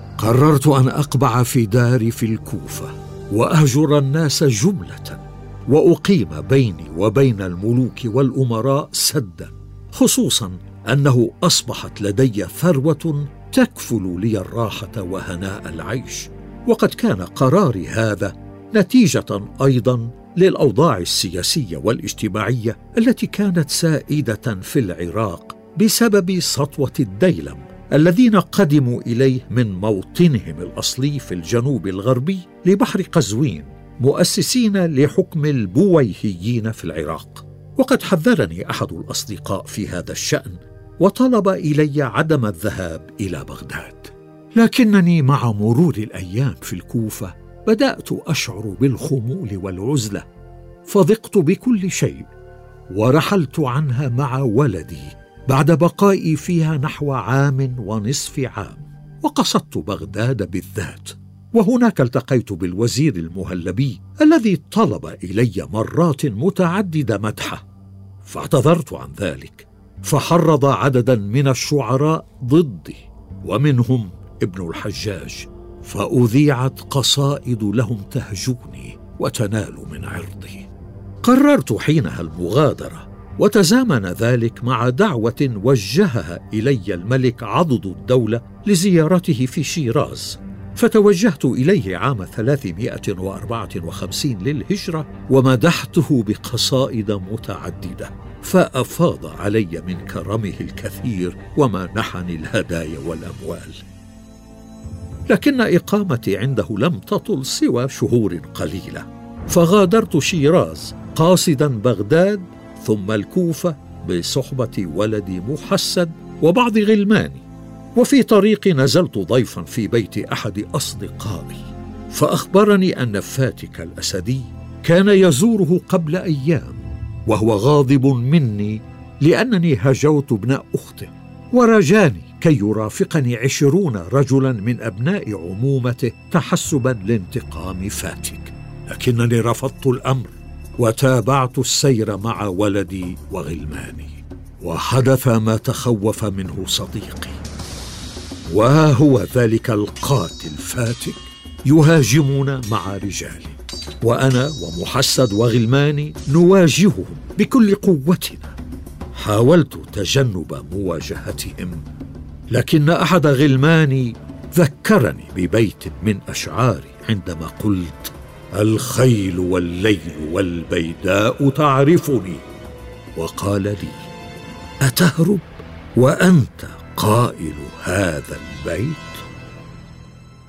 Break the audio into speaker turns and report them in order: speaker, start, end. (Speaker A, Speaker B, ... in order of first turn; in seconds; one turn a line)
Speaker A: 0.2-50.2
Speaker A: 50.9-52.3
Speaker A: 52.9-67.6
Speaker A: 68.2-80.7
Speaker A: 81.2-103.8
Speaker A: 105.3-117.4
Speaker A: 118.0-147.4
Speaker A: 148.5-158.6
Speaker A: 159.1-161.8
Speaker A: 162.5-172.4
Speaker A: 173.1-174.0
Speaker A: 174.8-179.2